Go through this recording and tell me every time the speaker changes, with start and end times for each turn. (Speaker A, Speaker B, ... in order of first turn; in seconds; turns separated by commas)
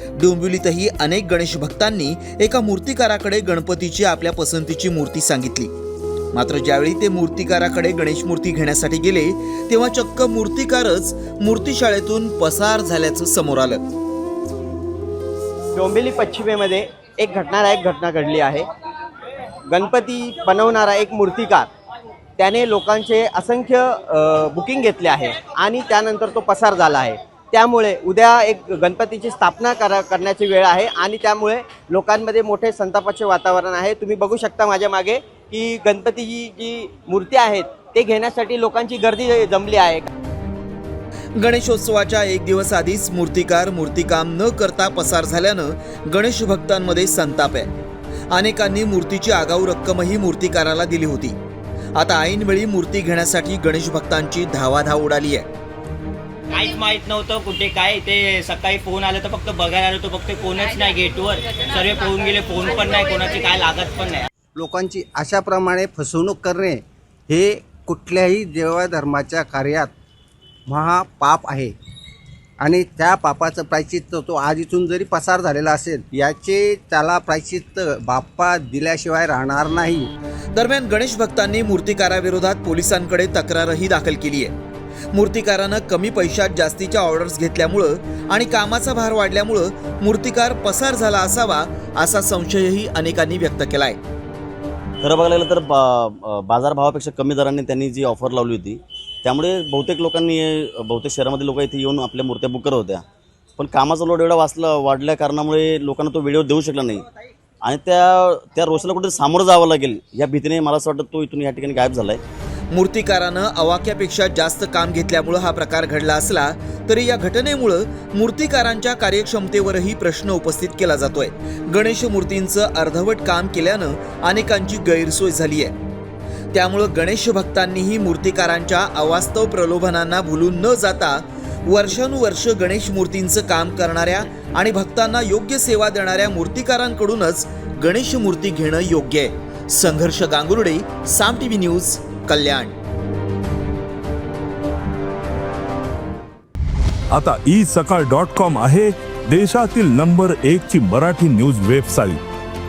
Speaker A: 0.2-5.7, Speaker A: 6.3-13.9, Speaker B: 15.7-18.7, Speaker B: 19.7-21.7, Speaker B: 22.4-40.1, Speaker A: 41.4-47.7, Speaker A: 48.3-51.4, Speaker A: 52.0-55.5, Speaker C: 56.5-64.3, Speaker D: 64.5-69.9, Speaker D: 70.7-71.7, Speaker D: 72.6-80.1, Speaker A: 80.5-84.5, Speaker A: 85.1-94.0, Speaker E: 95.0-103.0, Speaker E: 103.6-107.0, Speaker E: 107.6-112.2, Speaker A: 112.7-125.7, Speaker A: 126.5-142.7, Speaker F: 147.1-152.2